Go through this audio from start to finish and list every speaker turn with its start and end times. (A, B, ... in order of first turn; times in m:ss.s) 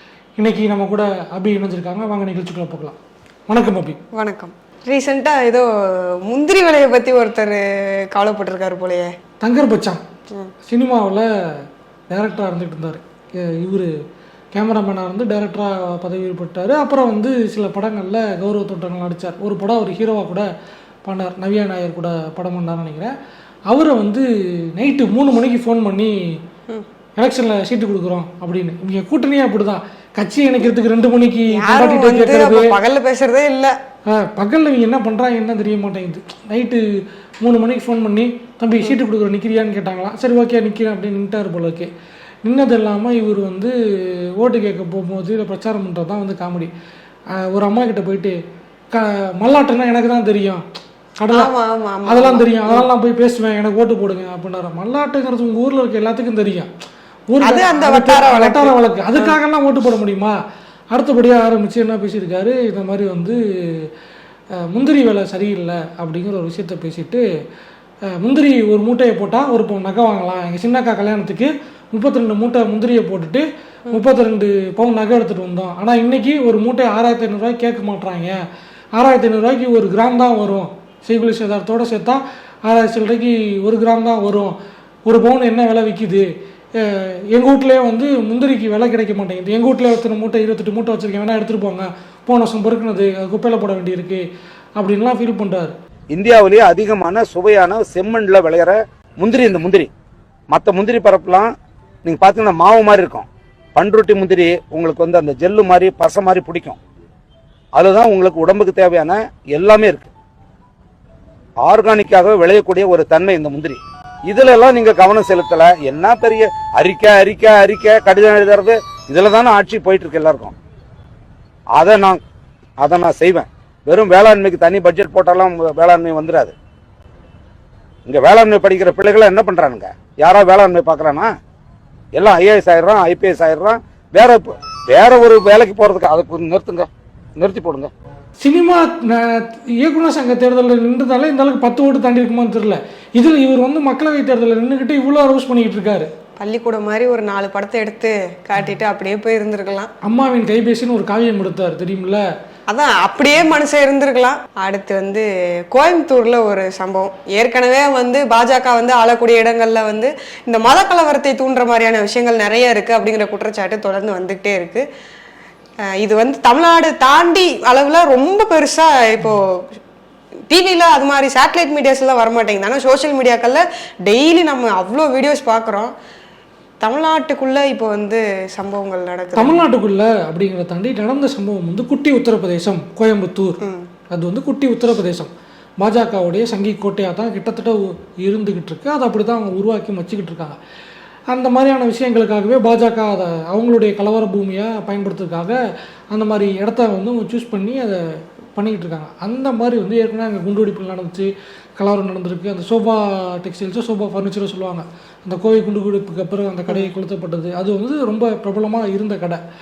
0:00.4-0:03.0 A
0:03.5-0:04.0 A
0:04.2-0:05.7 B
0:06.3-0:07.6 B
0:08.1-0:09.1 B
0:09.4-0:10.0 A
0:10.7-0:13.9 A
0:14.5-0:20.5 A
0:21.0-0:23.1 A
0:23.7-0:26.2 A
0:27.2-0:32.8 A
0:31.6-0:33.7 B
0:34.1-0:36.8 A
0:37.4-0:41.9 A
0:42.4-0:43.7 A
0:44.4-0:46.7 A
0:47.4-0:48.4 A
0:48.9-0:50.6 A
0:51.2-0:51.5 A
0:51.3-0:52.9 B
0:52.1-0:56.7 A
0:57.3-1:00.4 A
0:57.4-0:59.3 B
1:00.9-1:03.9 A
1:04.6-1:07.2 A
1:08.1-1:18.4 A
1:19.0-1:34.3 A
1:34.8-1:35.8 A
1:36.1-1:39.9 C
1:40.5-1:41.5 C
1:42.0-1:46.8 C
1:47.7-1:50.1 C
1:51.6-2:00.6 C
2:01.7-2:02.2 C
2:02.8-2:06.5 C
2:08.1-2:11.3 C
2:12.1-2:17.9 C
2:18.4-2:26.1 A
2:26.4-2:29.9 B
2:30.0-2:32.2 A
2:32.7-2:44.8 B
2:46.0-2:49.6 B
2:50.5-2:55.9 B
2:56.8-2:59.6 B
2:59.4-3:03.6 A
3:03.6-3:03.9 B
3:04.1-3:10.6 A
3:11.3-3:15.6 A
3:16.1-3:18.0 A
3:18.6-3:29.4 A